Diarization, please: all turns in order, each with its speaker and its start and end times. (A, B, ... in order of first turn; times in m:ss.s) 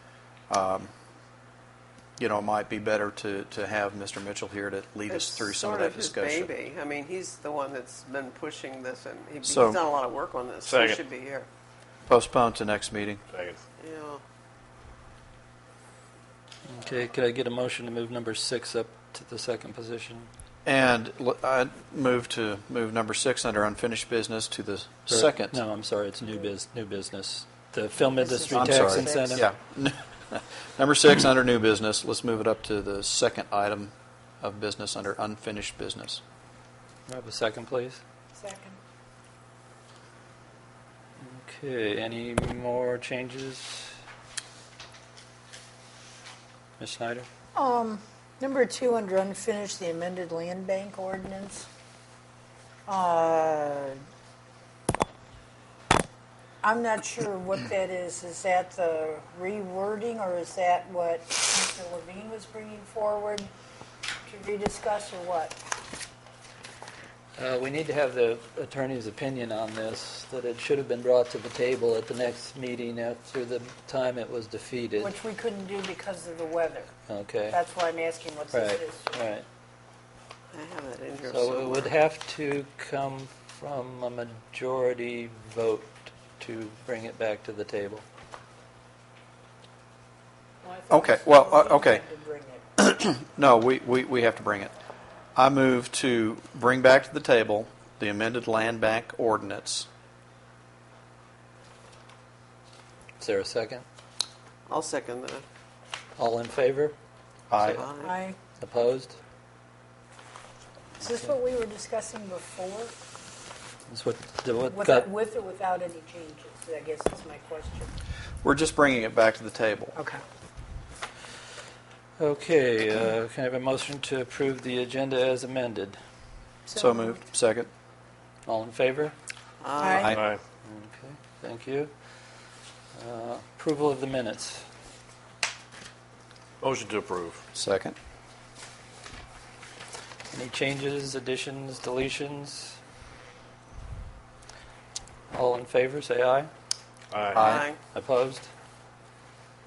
0:00.5-0:00.9 A
0:02.2-0:06.5 A
0:05.1-0:11.5 B
0:09.4-0:09.8 A
0:10.6-0:11.0 C
0:12.1-0:13.2 A
0:13.3-0:13.6 C
0:13.8-0:14.2 B
0:16.7-0:20.3 D
0:20.6-0:25.6 A
0:25.1-0:29.5 D
0:28.0-0:29.4 E
0:28.5-0:36.2 A
0:37.1-0:38.0 D
0:38.4-0:38.8 E
0:41.2-0:44.0 D
0:46.8-0:47.3 D
0:47.6-0:51.7 E
0:52.9-0:54.0 E
0:56.6-1:03.5 E
1:04.3-1:05.6 E
1:07.4-1:15.2 D
1:15.0-1:16.9 E
1:17.1-1:17.6 D
1:17.5-1:19.3 E
1:18.5-1:19.5 D
1:20.5-1:21.9 B
1:21.3-1:28.0 D
1:30.6-1:32.6 E
1:30.9-1:32.0 A
1:32.8-1:34.7 A
1:35.4-1:39.9 A
1:43.2-1:43.8 D
1:44.7-1:45.4 B
1:46.2-1:47.0 D
1:47.5-1:47.9 A
1:47.6-1:48.2 B
1:47.9-1:48.4 E
1:48.6-1:49.2 D
1:51.0-1:52.9 E
1:51.0-1:51.3 D
1:53.9-1:55.1 D
1:54.7-1:57.9 E
1:58.4-2:00.0 A
2:00.0-2:00.2 E
2:02.2-2:06.0 D
2:06.7-2:07.2 E
2:06.7-2:07.7 A
2:08.4-2:09.2 D
2:09.6-2:10.2 B
2:09.8-2:10.1 E
2:10.0-2:10.2 A
2:10.1-2:10.4 C
2:10.6-2:11.9 D
2:12.9-2:14.7 D
2:16.6-2:17.4 C
2:17.5-2:18.0 A
2:20.3-2:22.8 D
2:25.3-2:26.5 D
2:27.1-2:27.4 C
2:27.3-2:27.7 A
2:27.4-2:27.8 B
2:27.9-2:28.5 D